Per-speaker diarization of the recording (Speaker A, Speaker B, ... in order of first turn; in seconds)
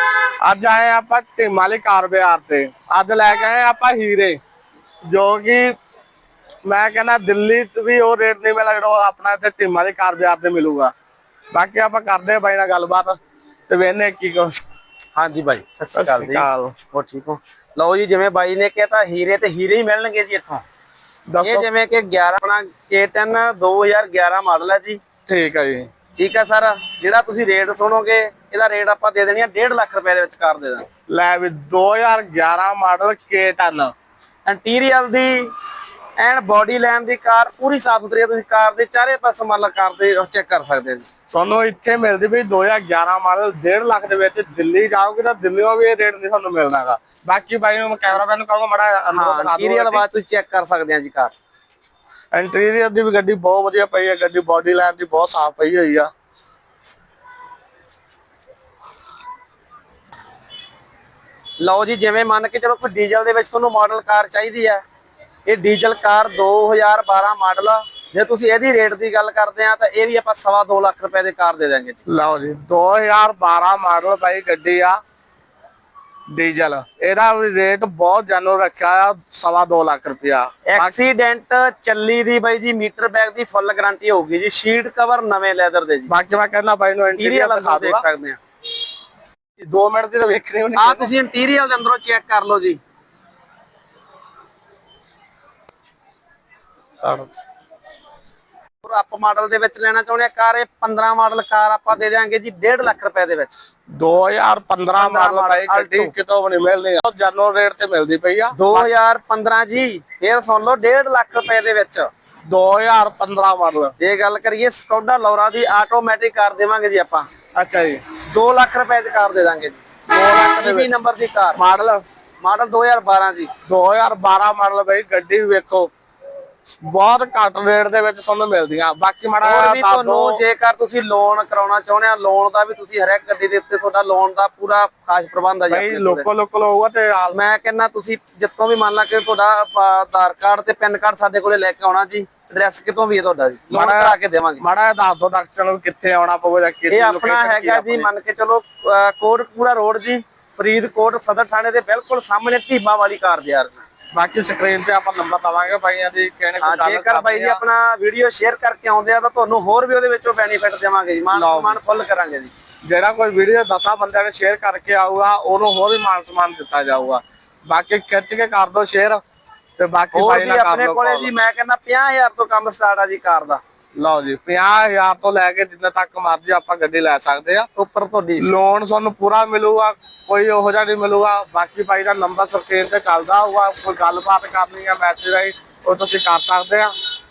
Speaker A: 0.4-4.4, 5.0-5.7, 6.6-10.9, 11.5-14.5, 15.9-16.8, 21.3-21.7, 25.3-25.9, 31.1-33.9, 41.3-50.0, 52.3-56.1, 72.1-75.0, 76.3-80.9, 86.1-88.0, 89.6-91.1, 97.0-97.3, 103.9-108.9, 112.5-113.9, 117.5-118.0, 120.1-120.9, 121.5-122.0, 123.6-125.9, 126.7-130.4, 135.7-137.3, 143.7-148.1, 154.1-157.6, 161.3-161.8, 162.8-169.2, 169.8-171.3, 174.0-177.7, 178.4-186.9
Speaker B: 15.1-20.6, 21.4-25.0, 26.1-30.9, 34.4-35.5, 36.2-41.1, 49.1-51.3, 61.6-64.8, 65.5-72.0, 80.7-86.1, 87.1-88.4, 90.8-92.8, 98.8-103.5, 105.0-106.1, 108.5-112.1, 114.0-117.2, 118.3-119.8, 120.5-121.6, 122.4-123.5, 129.4-136.2, 137.3-144.6, 146.9-153.8, 156.6-162.5, 170.1-173.6, 177.8-178.5